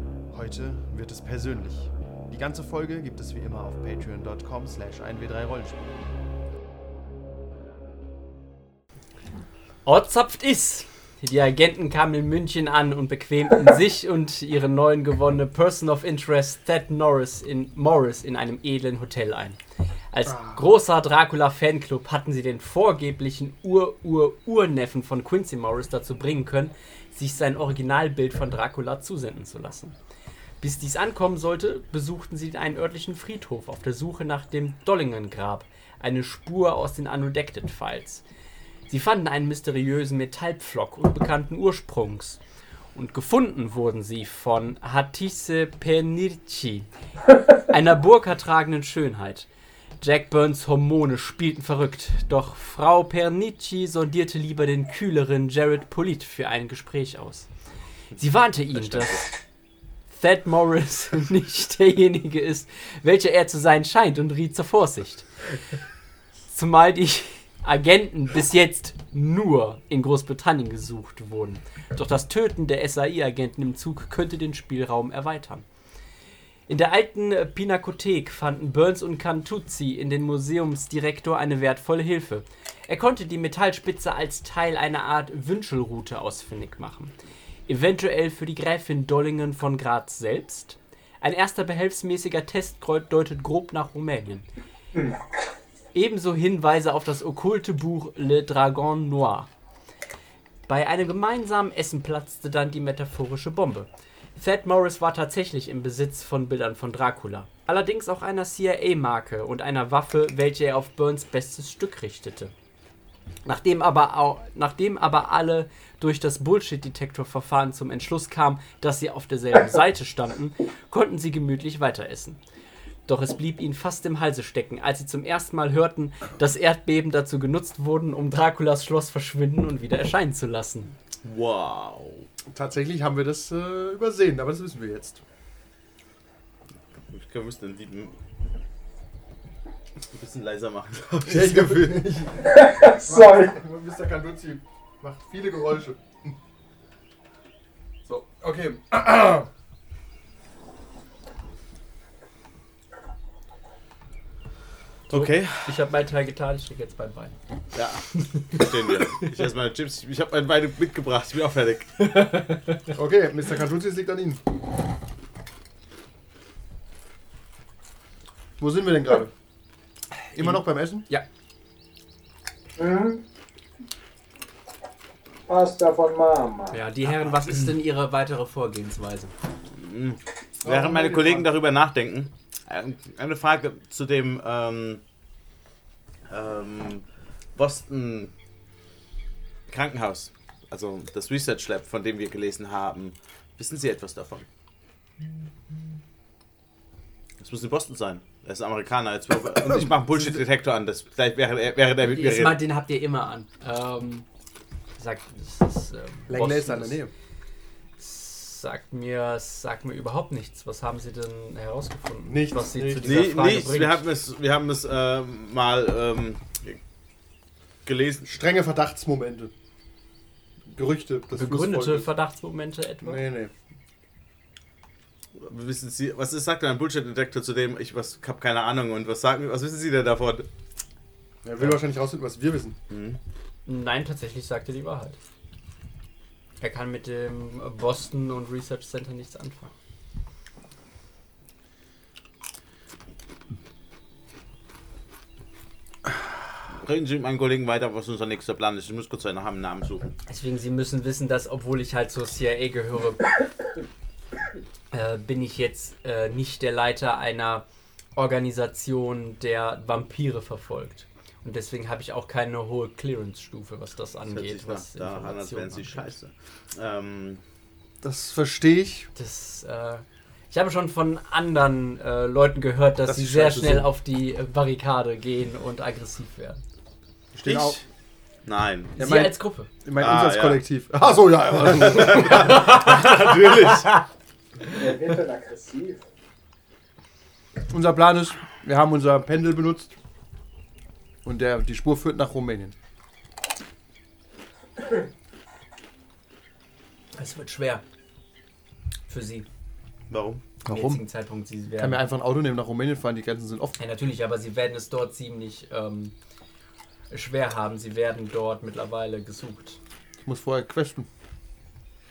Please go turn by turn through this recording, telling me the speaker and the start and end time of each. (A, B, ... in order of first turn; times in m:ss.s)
0:00.3-0:06.0 A
0:09.8-0:19.6 B
0:20.1-0:30.0 B
0:20.3-0:20.6 A
0:30.6-0:38.2 B
0:38.9-0:42.4 B
0:42.9-0:46.9 B
0:47.5-0:49.5 B
0:50.0-0:57.5 B
0:58.2-0:59.4 B
0:58.7-0:59.2 C
1:00.1-1:05.3 B
1:06.5-1:15.6 B
1:16.7-1:27.1 B
1:27.7-1:34.5 B
1:35.9-1:39.5 B
1:40.7-1:52.5 B
1:53.4-2:02.4 B
2:03.0-2:10.9 B
2:11.2-2:12.3 C
2:12.5-2:15.2 A
2:17.1-2:18.1 C
2:20.1-2:22.0 C
2:21.2-2:26.3 A
2:22.4-2:23.6 D
2:28.0-2:29.5 A
2:35.1-2:35.7 C
2:35.1-2:37.3 B
2:37.7-2:42.0 C
2:38.1-2:38.7 B
2:42.1-2:42.5 B
2:42.9-2:44.4 A
2:48.6-2:49.3 A
2:50.3-2:51.2 B
2:50.3-2:51.1 A
2:52.8-2:53.2 D
2:55.5-2:56.8 D
2:56.7-2:59.3 B
2:59.7-3:05.0 C
3:00.6-3:01.5 A
3:06.3-3:07.0 C
3:07.6-3:08.3 C
3:09.7-3:14.5 C
3:17.4-3:22.6 C
3:19.7-3:20.2 A
3:22.0-3:24.2 B
3:25.0-3:27.0 B
3:26.3-3:27.1 A
3:28.0-3:34.0 B
3:32.3-3:33.2 A
3:33.0-3:36.8 C
3:37.8-3:38.3 C
3:38.2-3:39.5 A
3:40.7-3:42.1 A
3:41.4-3:43.2 B
3:43.0-3:43.5 A
3:45.4-3:50.5 C
3:51.4-3:52.8 A
3:52.9-3:53.2 C
3:53.6-3:55.2 B
3:56.6-3:59.7 B
4:06.7-4:10.1 C
4:10.3-4:13.3 B
4:14.9-4:17.6 B
4:18.2-4:26.1 B
4:24.3-4:27.4 C
4:28.0-4:29.1 A
4:29.1-4:36.6 B
4:33.1-4:33.9 A
4:37.3-4:37.8 A
4:37.4-4:37.8 C
4:38.4-4:38.9 C
4:39.0-4:39.7 B
4:39.0-4:42.6 A
4:40.0-4:40.6 C
4:41.6-4:43.9 C
4:42.3-4:44.0 B
4:44.7-4:46.0 D
4:47.7-4:49.9 A
4:51.2-4:52.7 A
4:57.2-4:57.8 B
4:59.1-4:59.5 B
5:00.1-5:00.4 C
5:00.6-5:01.0 A
5:00.6-5:02.0 B
5:01.8-5:03.8 A
5:03.8-5:06.1 B
5:07.1-5:09.8 B
5:10.2-5:11.1 A